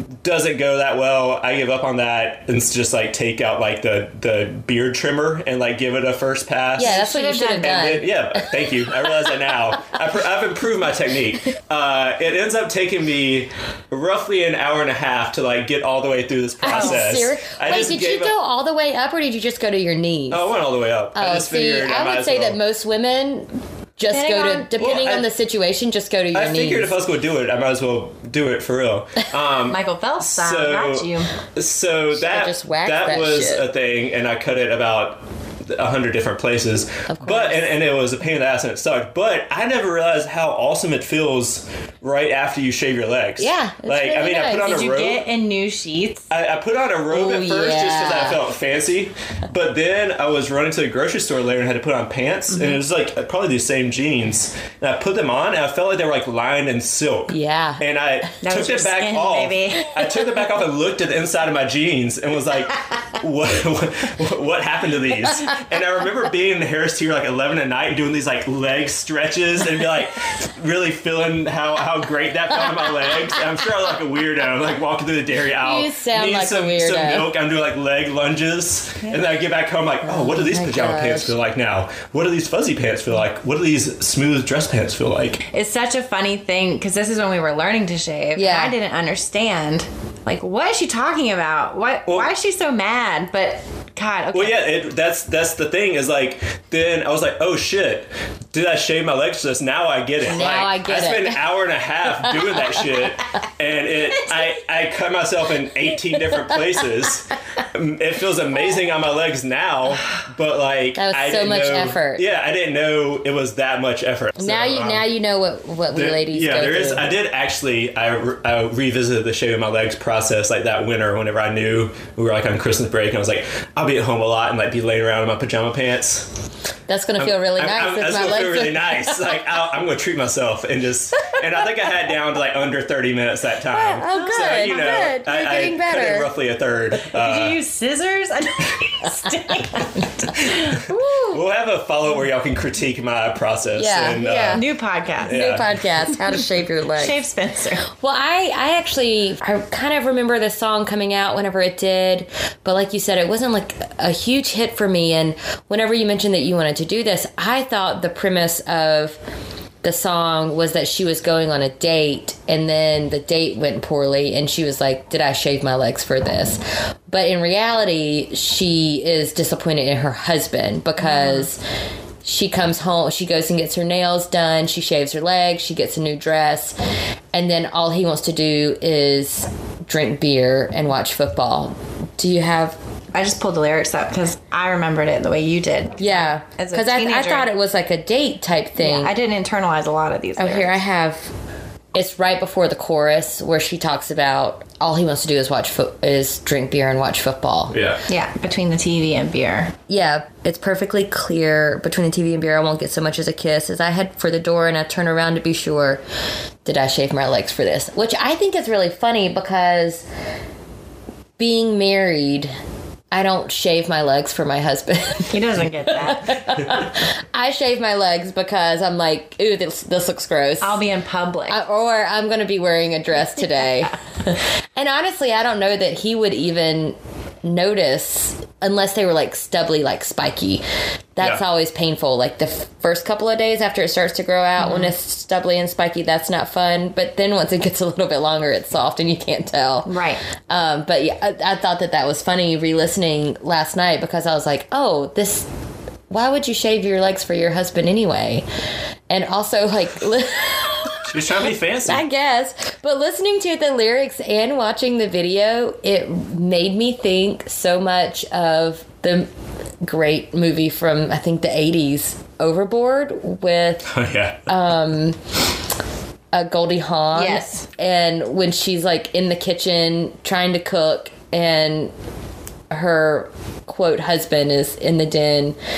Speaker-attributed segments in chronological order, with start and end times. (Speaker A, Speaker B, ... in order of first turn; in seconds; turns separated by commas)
Speaker A: 0.2-7.0, Speaker B: 6.8-8.4, Speaker C: 6.8-8.0, Speaker A: 7.6-18.4, Speaker B: 16.6-20.5, Speaker C: 16.7-17.0, Speaker A: 20.3-22.6, Speaker B: 21.1-26.9, Speaker C: 24.1-24.9, Speaker A: 24.8-25.3, Speaker A: 26.3-45.3, Speaker C: 29.7-31.3, Speaker B: 32.1-33.6, Speaker B: 37.1-37.6, Speaker B: 43.4-44.8, Speaker C: 44.6-46.3, Speaker A: 46.3-85.4, Speaker B: 47.1-48.4, Speaker B: 57.3-57.8, Speaker C: 58.4-60.0, Speaker B: 75.6-77.3, Speaker B: 80.0-81.4, Speaker C: 85.5-94.7, Speaker B: 88.4-88.8, Speaker A: 94.3-115.1, Speaker B: 100.2-101.4, Speaker B: 111.0-112.2, Speaker B: 114.4-117.1, Speaker A: 115.9-126.3, Speaker B: 126.9-129.2, Speaker A: 127.2-137.6, Speaker B: 133.7-136.3, Speaker C: 134.1-135.1, Speaker C: 137.1-140.6, Speaker A: 140.4-140.7, Speaker B: 140.9-141.4, Speaker A: 141.3-144.7, Speaker B: 143.8-144.6, Speaker C: 144.2-145.4, Speaker A: 145.2-145.7, Speaker B: 145.3-147.2, Speaker C: 146.2-147.8, Speaker B: 147.9-159.2, Speaker B: 159.8-171.6, Speaker C: 171.0-171.5, Speaker B: 172.2-176.8, Speaker B: 177.3-182.8, Speaker C: 183.1-187.5, Speaker B: 186.0-189.2, Speaker C: 188.8-190.8, Speaker B: 190.4-191.3, Speaker B: 191.9-197.8, Speaker A: 197.7-198.0, Speaker C: 198.1-199.8, Speaker B: 199.9-206.0, Speaker B: 206.7-210.1, Speaker B: 211.4-212.5, Speaker B: 213.1-220.8, Speaker C: 215.3-216.4, Speaker C: 220.6-221.6, Speaker B: 221.5-230.6, Speaker B: 231.2-239.9, Speaker C: 234.6-234.9, Speaker C: 239.9-240.2, Speaker B: 240.5-245.5, Speaker B: 246.1-248.4, Speaker B: 249.1-251.1, Speaker A: 251.0-252.1, Speaker B: 251.8-259.3, Speaker B: 259.8-263.9, Speaker A: 263.9-264.5, Speaker B: 264.5-265.2, Speaker B: 266.3-271.9, Speaker C: 267.1-267.7, Speaker B: 272.7-275.6